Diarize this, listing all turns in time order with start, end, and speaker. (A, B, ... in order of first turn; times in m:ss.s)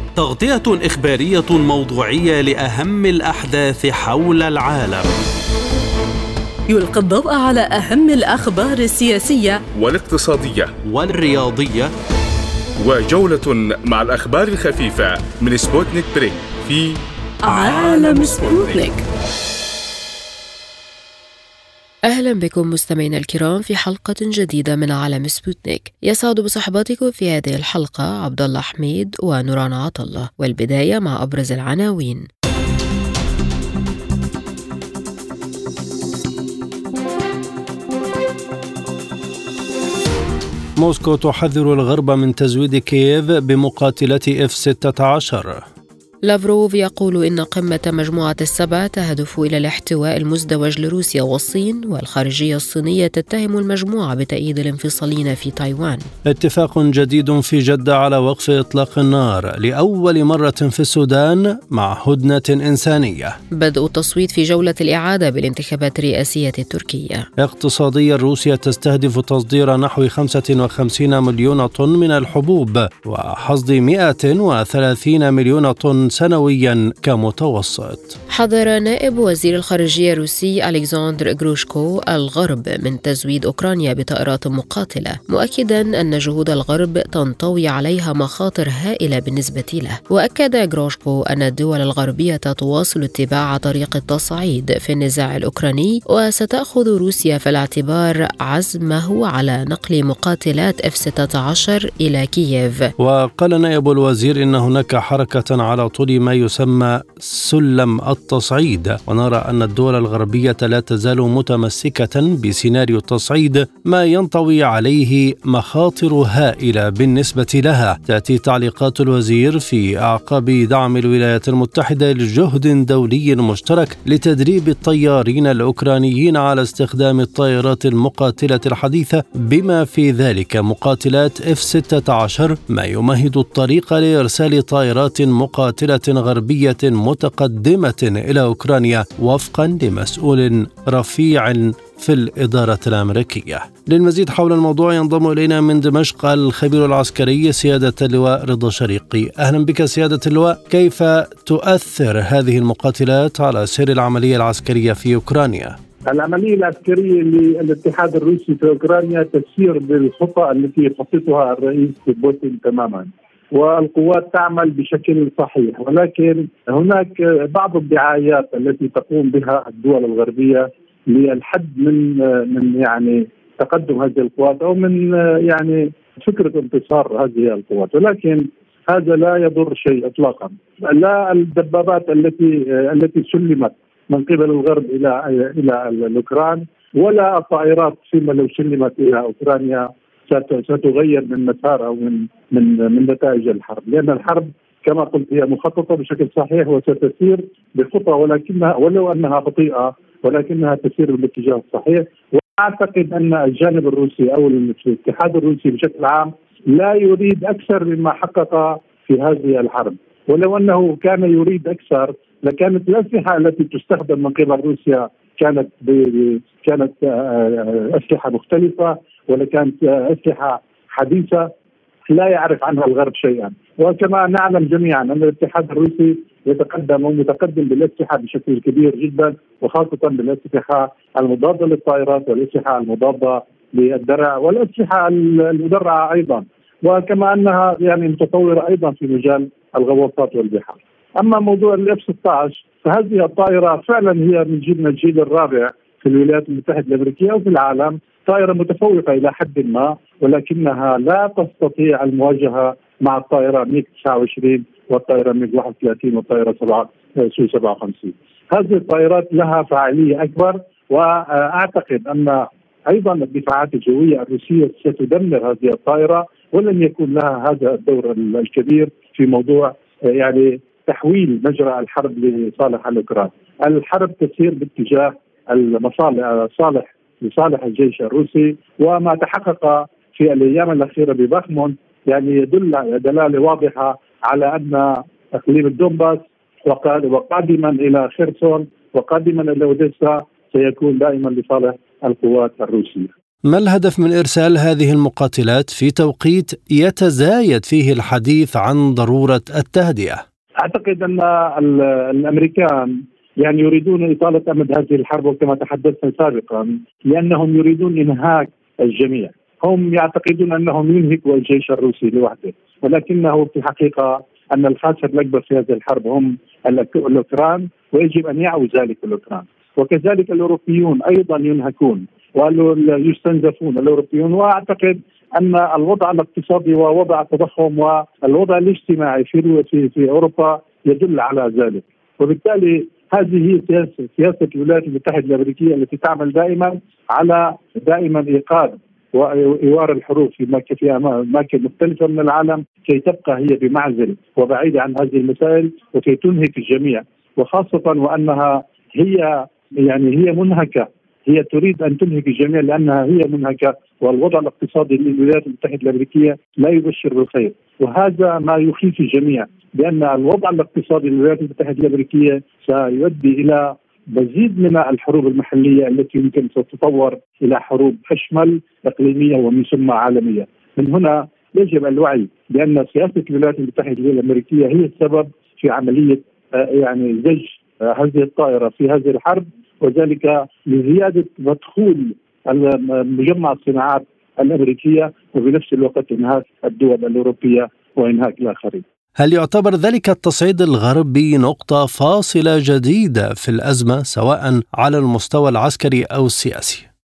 0:00.2-0:05.2 A
0:06.7-0:09.6 B
0:09.7-0:10.7 C
0:10.9-0:11.9 A
0:12.8-0:18.8 C
0:17.4-0:19.0 B
0:18.2-0:18.5 A
0:22.1-0:32.2 D
0:40.8-0:45.6 E
0:46.3-0:56.1 D
0:56.2-1:03.4 E
1:03.6-1:07.2 D
1:07.4-1:18.2 E
1:18.3-1:42.9 D
1:43.0-2:35.8 E
2:36.1-3:41.5 F
3:42.1-4:53.1 F
4:53.5-5:00.2 E
5:00.6-6:28.8 F
6:29.2-6:36.8 E